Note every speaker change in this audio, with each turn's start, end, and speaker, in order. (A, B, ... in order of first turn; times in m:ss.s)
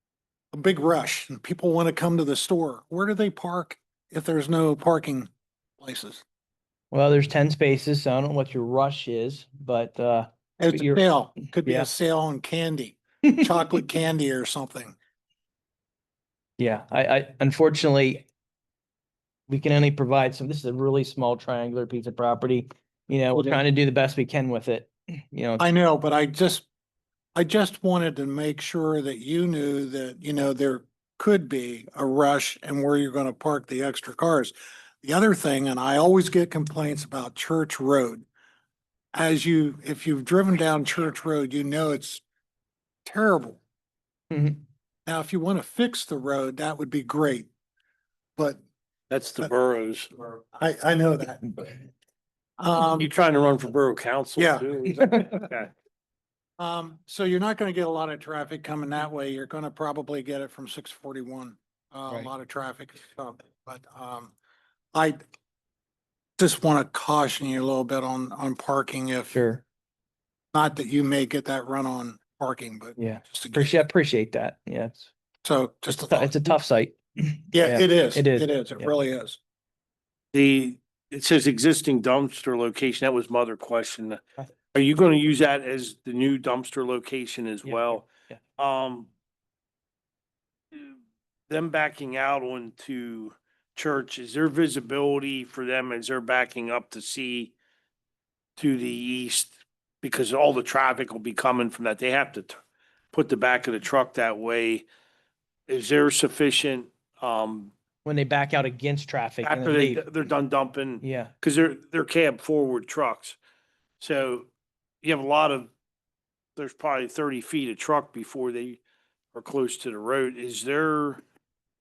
0:00.5-0:06.2 A
0:06.9-0:11.0 B
0:10.6-0:15.0 A
0:11.6-0:11.9 B
0:16.6-0:18.2 B
0:19.5-0:25.6 B
0:25.6-0:26.7 A
0:27.4-0:38.3 A
0:39.1-0:42.2 A
0:43.1-0:43.6 A
0:44.3-0:44.6 B
0:45.1-0:47.5 A
0:49.1-0:50.1 C
0:50.5-0:51.9 A
0:52.6-0:53.1 A
0:52.9-0:55.7 C
0:54.4-0:54.7 A
0:56.6-1:04.3 A
1:04.9-1:05.2 A
1:06.4-1:09.4 A
1:09.3-1:09.6 B
1:10.5-1:13.7 A
1:13.0-1:15.1 B
1:15.4-1:16.6 A
1:15.9-1:19.0 B
1:17.5-1:19.4 A
1:20.3-1:29.1 C
1:27.6-1:28.4 B
1:31.5-1:37.6 C
1:38.6-1:42.6 C
1:43.1-1:44.9 C
1:45.7-1:47.7 C
1:48.0-1:50.1 B
1:49.4-1:53.4 C
1:51.0-1:51.3 B
1:54.0-1:54.5 C
1:55.0-1:55.7 C
1:56.6-1:58.8 C
1:59.3-2:01.2 C